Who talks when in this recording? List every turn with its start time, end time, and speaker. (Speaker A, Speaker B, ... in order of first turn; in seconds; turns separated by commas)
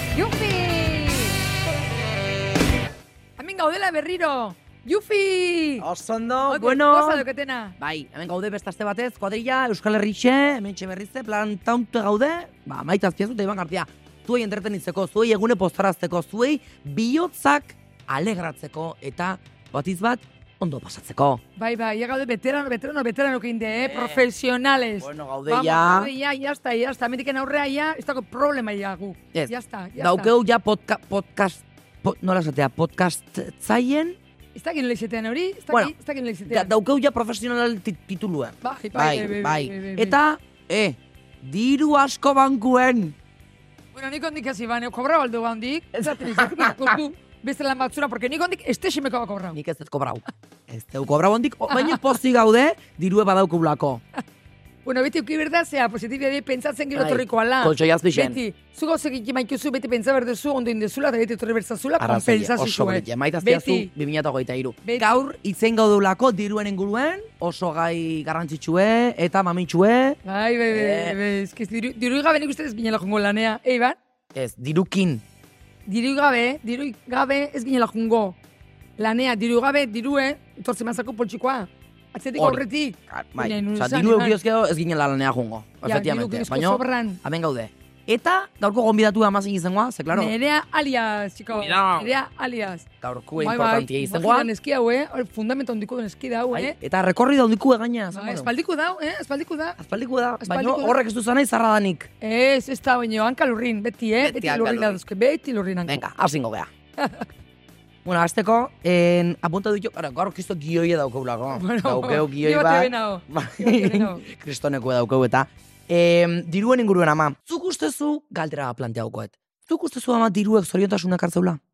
Speaker A: 0.1-1.4, Speaker A: 3.4-5.9, Speaker B: 5.8-7.3, Speaker A: 6.5-7.8, Speaker B: 7.8-21.4, Speaker A: 21.6-30.3, Speaker B: 23.8-24.2, Speaker B: 25.0-26.1, Speaker B: 29.3-34.2, Speaker A: 34.5-36.7, Speaker B: 36.5-43.2, Speaker A: 38.6-40.2, Speaker A: 43.9-49.6, Speaker B: 46.0-47.0, Speaker B: 49.5-54.0, Speaker A: 51.7-52.0, Speaker A: 54.9-63.9, Speaker B: 57.0-58.4, Speaker B: 62.0-70.2, Speaker A: 64.8-65.2, Speaker A: 70.2-74.0, Speaker B: 70.7-71.2, Speaker B: 74.3-75.2, Speaker A: 75.9-78.4, Speaker A: 79.0-84.4, Speaker B: 82.4-90.3, Speaker A: 85.8-87.2, Speaker A: 90.1-92.8, Speaker B: 91.5-92.1, Speaker B: 93.0-94.5, Speaker A: 93.4-96.8, Speaker B: 96.5-98.5, Speaker A: 98.1-99.8, Speaker B: 99.8-102.1, Speaker A: 100.4-101.0, Speaker A: 102.2-106.0, Speaker B: 104.2-105.0, Speaker B: 105.9-106.7, Speaker A: 107.0-107.3, Speaker B: 108.0-121.6, Speaker A: 111.5-114.2